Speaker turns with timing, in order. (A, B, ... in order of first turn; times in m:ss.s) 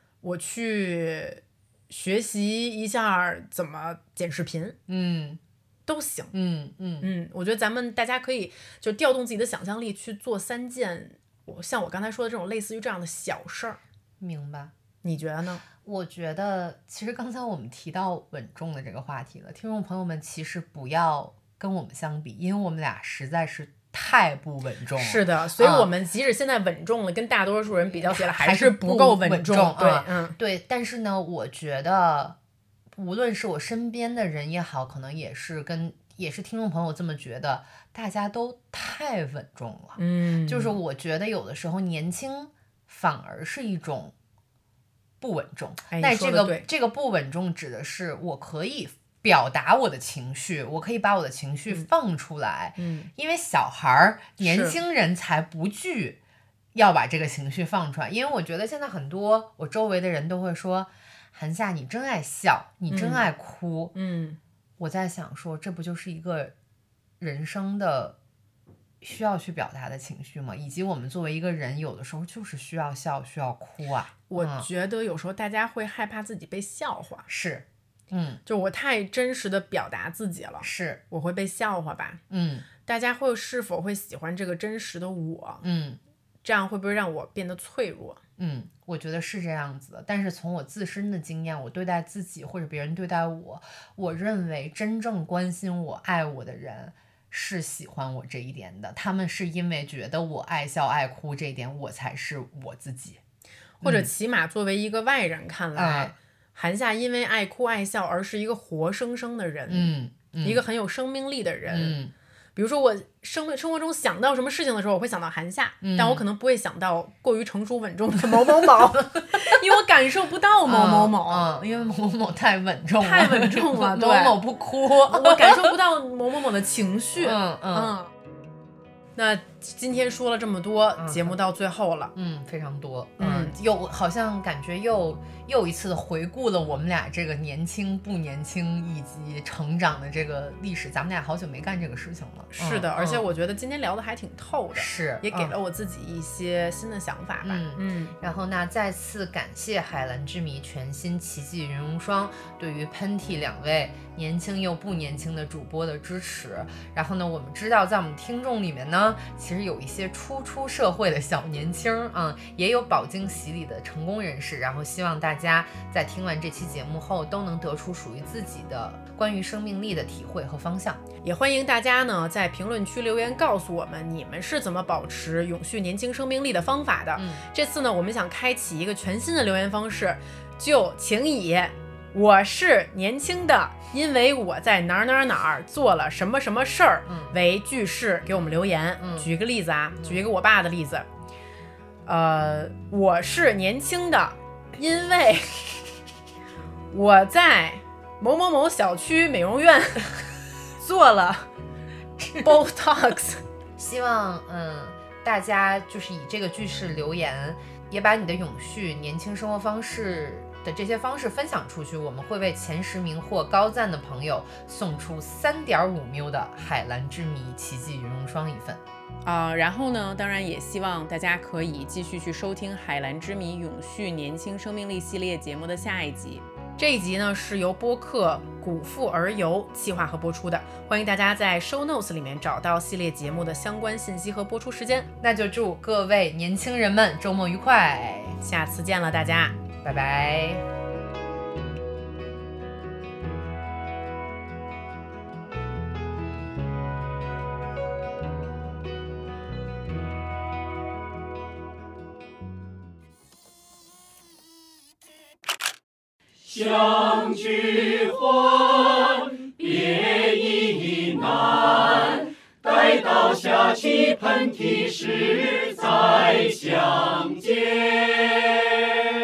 0:00.2-0:04.8 A
0:04.9-0:05.4 B
0:05.9-0:06.3 A
0:06.3-0:07.1 B
0:07.0-0:13.8 A
0:14.2-0:14.7 B
0:15.0-0:15.6 A
0:15.8-0:25.9 B
0:25.0-0:30.4 A
0:27.9-0:32.4 B
0:32.9-0:44.1 B
0:40.0-0:40.8 A
0:45.2-0:56.2 B
0:45.9-0:46.6 A
0:52.8-0:53.1 A
0:54.4-0:54.8 A
0:56.7-1:03.9 B
1:02.9-1:03.3 A
1:03.9-1:04.4 A
1:04.8-1:06.5 B
1:07.2-1:08.2 B
1:09.0-1:14.7 B
1:14.3-1:17.2 A
1:17.3-1:18.4 B
1:18.4-1:22.2 A
1:20.6-1:21.0 B
1:22.3-1:22.7 B
1:22.8-1:25.6 A
1:25.6-1:26.0 B
1:26.4-1:28.2 A
1:28.4-1:43.2 B
1:43.8-1:44.1 B
1:43.8-1:52.0 A
1:45.7-1:46.1 B
1:49.7-1:50.6 B
1:51.7-1:52.1 B
1:52.6-2:01.5 A
1:55.8-1:56.2 B
1:58.4-1:59.6 B
2:00.6-2:05.8 B
2:03.0-2:08.1 A
2:07.2-2:08.0 B
2:09.2-2:12.1 A
2:11.0-2:11.4 B
2:12.1-2:23.2 B
2:13.2-2:13.6 A
2:22.5-2:28.2 A
2:24.7-2:25.5 B
2:27.4-2:51.0 B
2:51.2-3:11.0 A
2:57.2-2:57.4 B
3:07.1-3:07.4 B
3:09.0-3:09.3 B
3:12.0-3:15.8 A
3:16.9-3:20.2 A
3:20.8-3:21.5 A
3:22.2-3:22.5 B
3:22.4-3:23.4 A
3:23.8-3:38.8 B
3:39.2-3:55.1 A
3:55.2-3:58.4 B
3:58.4-3:59.6 A
3:59.8-4:00.6 B
4:16.4-4:28.9 C